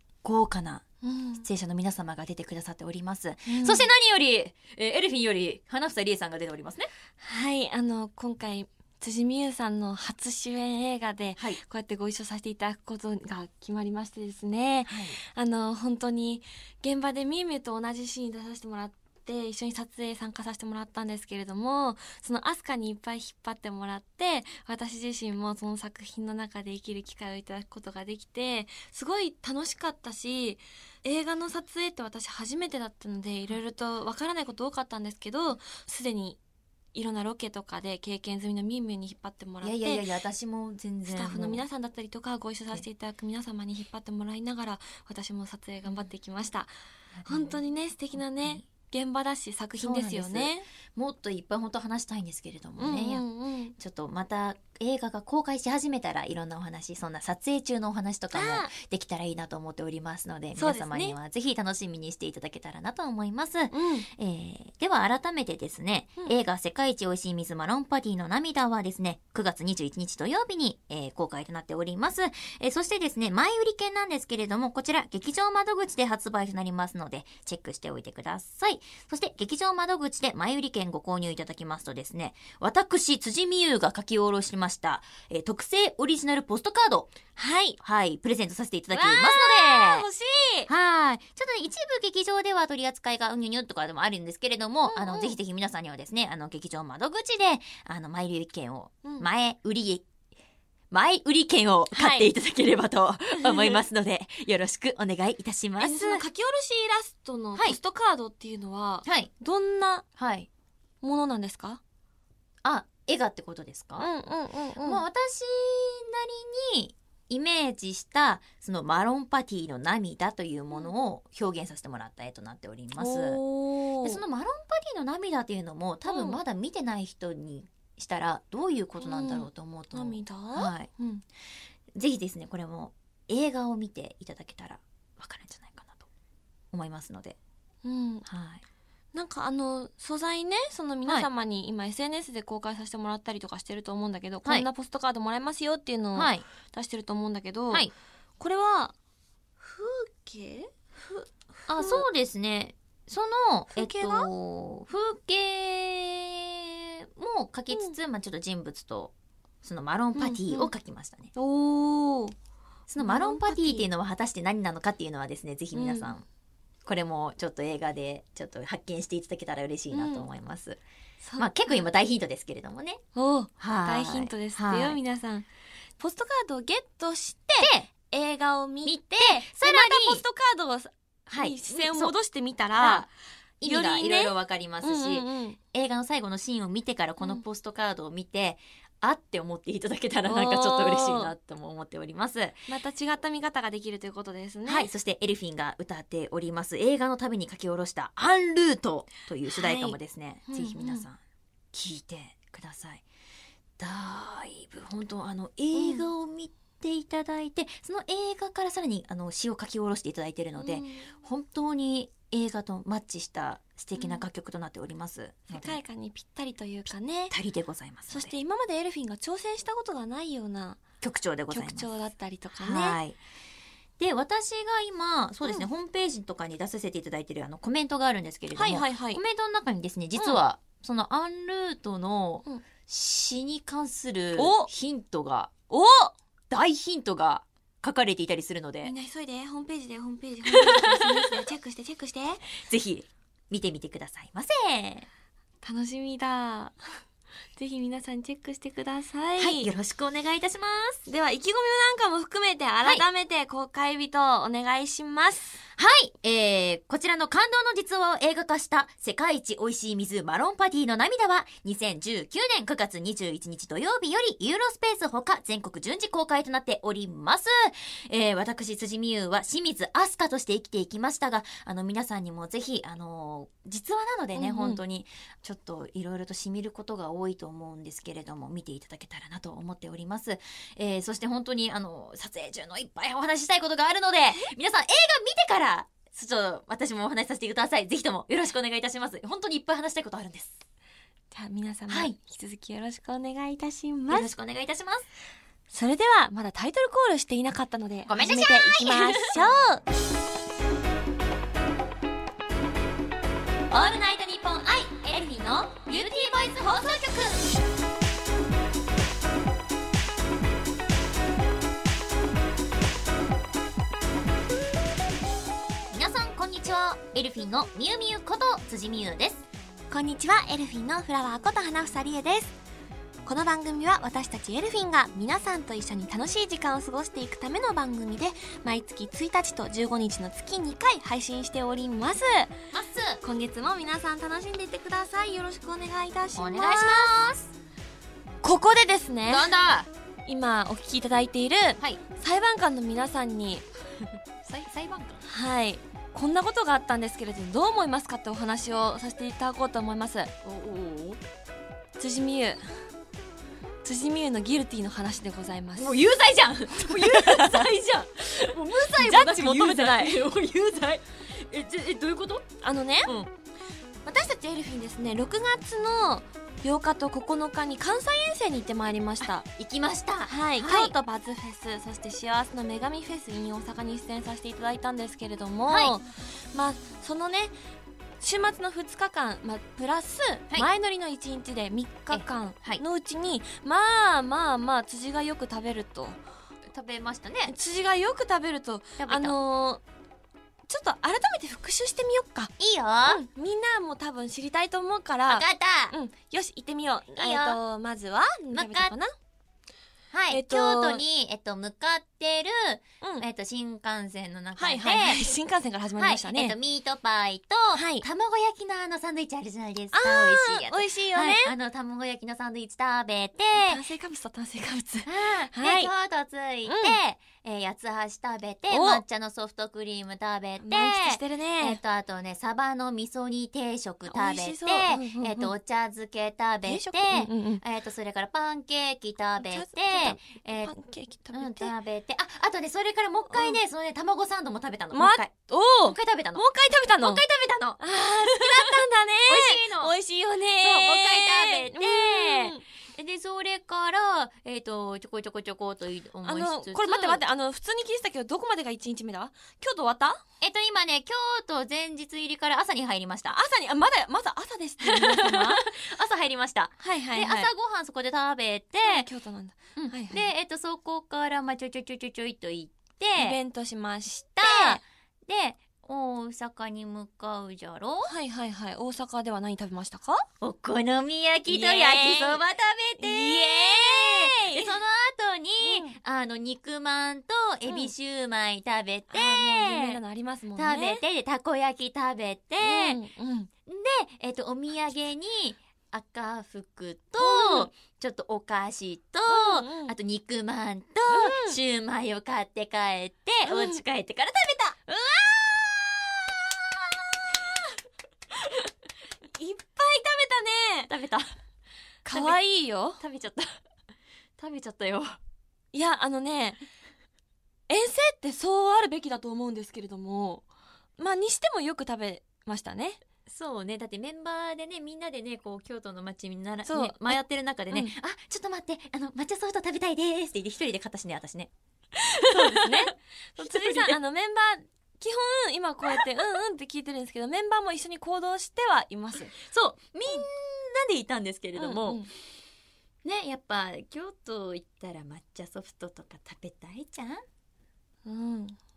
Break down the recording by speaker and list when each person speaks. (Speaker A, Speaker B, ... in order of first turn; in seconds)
Speaker A: 0.2-0.8, 1.4-6.9, 14.8-15.2, 39.6-41.6, 47.1-47.6, 48.1-48.6, 49.8-53.2, 53.8-87.1, 87.8-90.0, 90.7-100.0, 100.9-106.2, 109.0-109.3, 110.2-110.5, 112.6-114.1, 114.8-123.4, 124.0-130.9, 131.9-136.1, 136.7-137.4, 138.2-138.6, 146.1-146.4, 151.7-161.3, 162.9-166.2, 166.8-170.8, 171.4-173.0, 173.6-175.0, 177.6-177.9, 178.8-180.2, 181.3-182.1, 182.8-183.1, 183.6-192.6, 194.7-201.2, 201.7-203.0, 203.8-215.8, 217.3-218.3, 221.0-221.9, 222.6-223.2, 224.0-235.5, 236.5-238.9, 240.5-241.4, 242.6-245.1, 249.4-251.1, 255.8-290.6, 291.9-292.1, 294.1-295.1, 298.1-299.4, 303.7-307.5, 315.9-319.4, 332.7-333.2, 336.4-337.5, 339.3-339.9, 344.4-345.2, 350.4-351.2, 355.8-362.4, 363.0-363.3, 369.2-370.9, 375.7-375.9, 382.1-382.8, 386.7-387.5, 389.0-389.3, 392.6-393.2, 395.3-395.9, 397.2-397.6, 398.5-398.9, 400.1-405.3, 406.0-413.8, 415.1-430.7, 431.3-435.3, 435.8-436.4, 437.0-439.9, 440.6-447.2, 450.4-453.4, 454.8-459.1, 459.8-463.4, 464.4-468.1, 470.4-480.0, 480.6-483.0, 483.7-494.8, 500.9-501.3, 502.1-502.4, 503.0-503.5, 504.4-505.2, 513.3-521.5, 522.1-524.0, 529.3-532.1, 533.0-537.2
Speaker B: 1.0-1.4, 3.5-3.9, 7.2-36.4, 36.9-40.0, 41.1-46.7, 47.3-50.7, 52.8-53.7, 58.3-58.7, 60.5-61.1, 63.7-64.1, 87.3-87.8, 88.9-90.7, 94.9-95.4, 101.9-102.3, 103.4-103.8, 105.8-110.0, 111.0-111.8, 114.0-115.0, 122.9-124.2, 126.0-126.4, 129.0-131.2, 137.8-138.2, 139.1-147.9, 148.4-148.9, 149.6-152.0, 153.7-154.3, 157.7-158.0, 160.2-160.7, 161.3-162.3, 163.0-163.9, 165.7-166.1, 169.9-170.3, 171.2-171.8, 173.1-175.5, 176.0-183.1, 183.6-185.6, 190.2-191.3, 192.7-194.9, 199.4-201.0, 205.7-206.1, 210.6-211.1, 214.0-214.2, 215.5-217.3, 218.1-220.8, 221.5-223.0, 228.5-229.2, 234.3-234.7, 235.7-236.1, 238.8-242.4, 245.6-246.8, 247.6-249.7, 251.1-255.6, 274.4-274.8, 291.3-294.3, 295.7-299.8, 319.9-322.6, 323.2-332.5, 333.2-337.1, 338.4-339.5, 340.2-343.6, 345.2-350.3, 352.0-352.7, 353.8-356.0, 356.8-357.7, 358.7-360.2, 362.6-363.1, 364.0-369.4, 370.3-377.5, 378.2-386.2, 387.5-389.8, 390.7-392.5, 393.1-399.1, 400.3-401.0, 404.6-406.5, 407.7-408.0, 409.9-411.5, 413.5-415.9, 416.6-417.0, 418.7-419.0, 420.6-421.8, 424.1-425.5, 426.6-427.6, 429.4-431.7, 433.3-433.6, 434.9-437.2, 437.8-442.6, 446.2-450.2, 453.3-455.6, 456.8-457.5, 458.8-460.3, 463.2-464.8, 468.1-470.2, 471.5-472.4, 473.0-474.7, 475.6-475.9, 477.6-477.9, 479.1-481.0, 482.6-483.5, 487.2-487.7, 489.3-489.9, 491.1-491.6, 493.4-493.8, 494.9-497.7, 498.4-498.7, 499.3-500.9, 502.0-503.0, 505.7-506.6, 507.7-510.4, 511.0-513.0, 516.6-517.2, 522.1-529.3, 531.5-532.1, 538.0-538.6